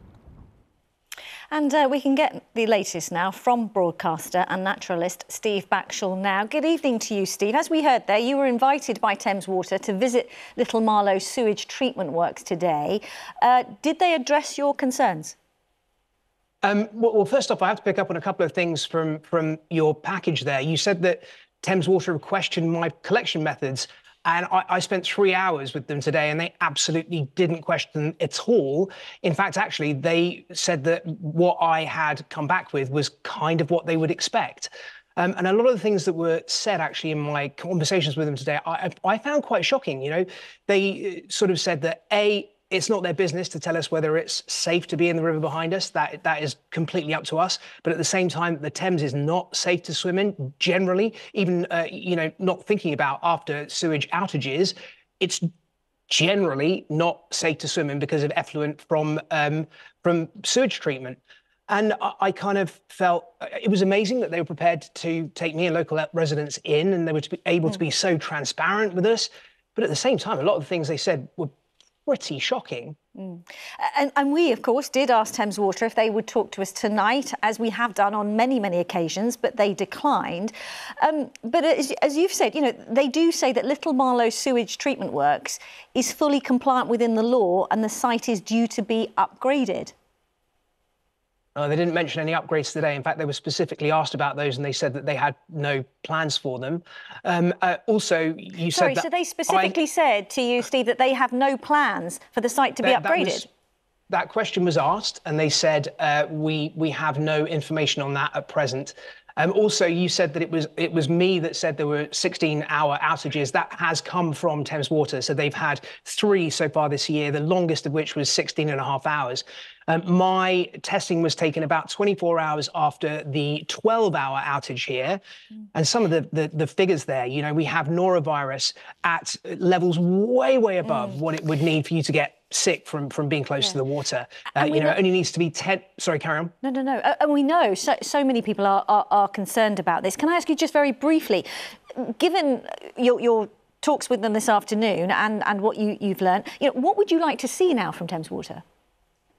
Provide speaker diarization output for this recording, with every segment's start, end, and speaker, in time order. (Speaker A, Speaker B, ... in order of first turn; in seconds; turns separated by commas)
Speaker A: 1.5-15.3, Speaker B: 16.6-55.5, Speaker B: 56.1-71.5, Speaker B: 72.0-73.0, Speaker A: 73.2-89.9, Speaker B: 91.5-99.8, Speaker A: 98.7-103.5, Speaker B: 102.8-103.5, Speaker B: 104.1-125.2, Speaker B: 125.7-136.5, Speaker A: 130.8-131.2, Speaker A: 134.6-135.0, Speaker A: 136.6-148.6